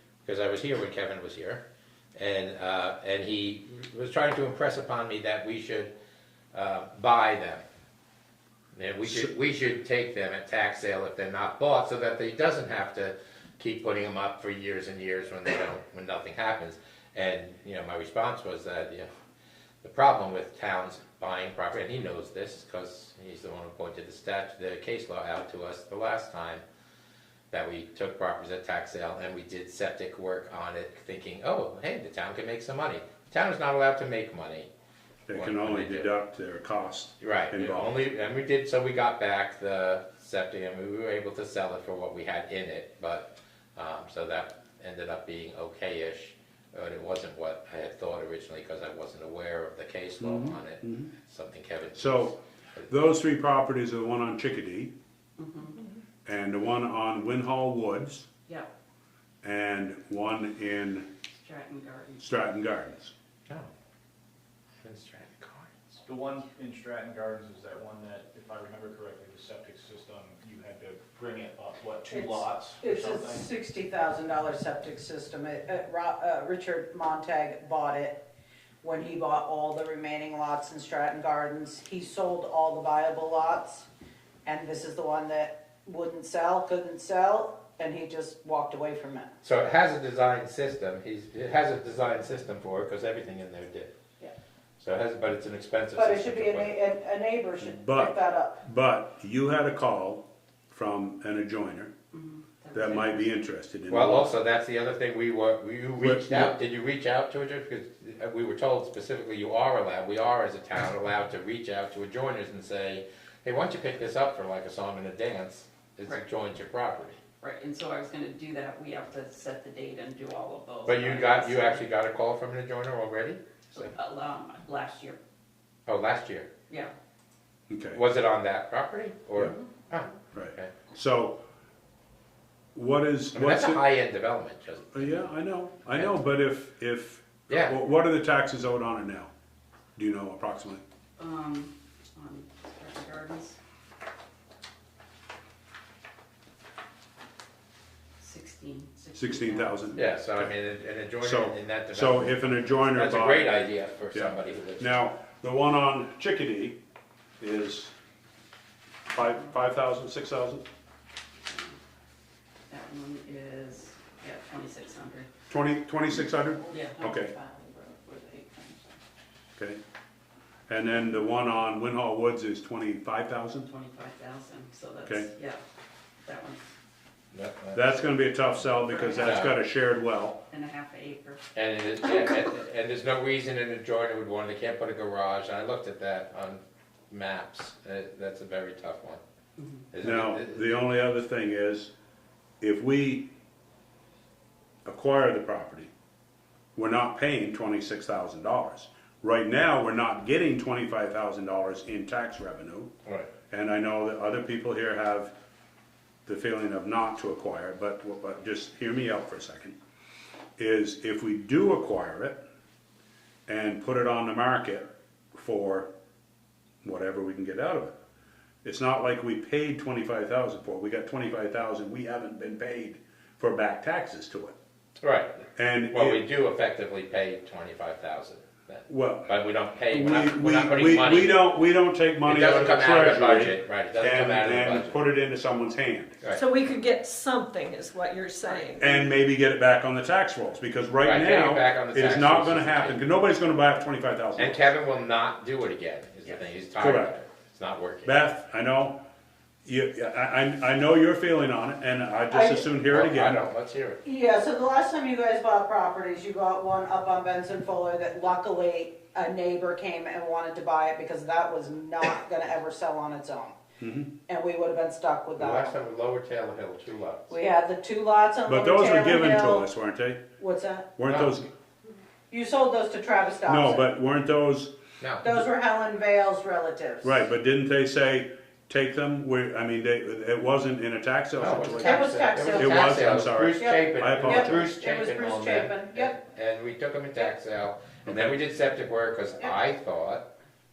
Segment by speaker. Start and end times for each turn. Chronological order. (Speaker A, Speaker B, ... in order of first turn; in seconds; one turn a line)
Speaker A: 0.2-1.6
Speaker A: 2.2-5.9
Speaker A: 6.5-7.6
Speaker A: 8.8-19.1
Speaker A: 19.8-26.6
Speaker A: 27.5-34.7
Speaker B: 35.3-38.0
Speaker A: 35.3-36.1
Speaker A: 37.2-52.9
Speaker B: 50.2-51.1
Speaker B: 52.0-52.4
Speaker B: 52.9-54.9
Speaker C: 55.4-55.9
Speaker B: 56.3-58.3
Speaker B: 59.4-61.1
Speaker C: 61.4-62.2
Speaker B: 62.2-63.1
Speaker A: 64.8-66.0
Speaker D: 66.0-73.5
Speaker E: 72.8-78.2
Speaker E: 78.8-83.9
Speaker E: 84.5-89.3
Speaker A: 89.4-93.9
Speaker A: 94.8-96.8
Speaker E: 96.0-98.6
Speaker B: 97.6-101.9
Speaker C: 102.1-103.3
Speaker B: 102.7-104.3
Speaker A: 103.9-117.2
Speaker B: 106.0-106.5
Speaker C: 117.4-121.8
Speaker A: 120.9-123.9
Speaker C: 123.7-125.2
Speaker A: 125.9-126.5
Speaker B: 127.7-128.0
Speaker A: 127.9-130.7
Speaker B: 130.3-131.4
Speaker B: 132.8-133.8
Speaker A: 133.3-135.3
Speaker B: 134.9-139.3
Speaker A: 135.8-136.2
Speaker A: 137.5-137.8
Speaker B: 140.0-140.8
Speaker C: 141.2-143.6
Speaker C: 148.2-150.0
Speaker B: 149.2-150.5
Speaker A: 150.0-155.0
Speaker B: 151.2-156.8
Speaker B: 157.4-157.9
Speaker B: 159.1-160.7
Speaker C: 161.5-161.8
Speaker C: 162.7-165.3
Speaker B: 165.5-167.3
Speaker C: 166.7-167.3
Speaker B: 169.6-169.8
Speaker B: 170.7-173.7
Speaker C: 173.7-175.6
Speaker C: 176.2-176.7
Speaker A: 177.3-178.1
Speaker B: 177.7-180.4
Speaker C: 178.8-179.4
Speaker A: 179.2-179.6
Speaker C: 180.5-181.4
Speaker A: 181.5-189.2
Speaker A: 189.9-190.8
Speaker B: 190.0-191.9
Speaker B: 192.6-193.3
Speaker B: 194.8-195.9
Speaker B: 196.8-202.9
Speaker B: 203.5-205.3
Speaker B: 206.3-209.8
Speaker B: 210.6-212.4
Speaker B: 213.5-215.9
Speaker B: 216.8-217.9
Speaker B: 218.6-224.6
Speaker A: 225.0-231.4
Speaker B: 225.6-226.2
Speaker B: 228.9-229.3
Speaker B: 229.9-236.2
Speaker A: 232.2-235.0
Speaker F: 236.3-239.1
Speaker B: 238.8-244.6
Speaker A: 241.0-243.0
Speaker A: 244.4-248.2
Speaker B: 246.8-247.1
Speaker B: 248.0-249.0
Speaker B: 249.7-253.4
Speaker E: 252.3-252.7
Speaker A: 252.8-254.0
Speaker E: 254.0-263.6
Speaker B: 263.8-264.1
Speaker E: 264.3-265.7
Speaker A: 265.4-267.3
Speaker E: 267.3-269.7
Speaker B: 268.5-270.2
Speaker E: 270.4-270.9
Speaker B: 271.0-271.5
Speaker A: 271.0-271.3
Speaker E: 272.3-273.8
Speaker B: 273.5-274.7
Speaker A: 275.0-275.3
Speaker E: 275.2-277.2
Speaker B: 277.0-284.7
Speaker A: 281.4-290.2
Speaker E: 281.8-283.0
Speaker E: 283.6-286.1
Speaker B: 288.1-288.4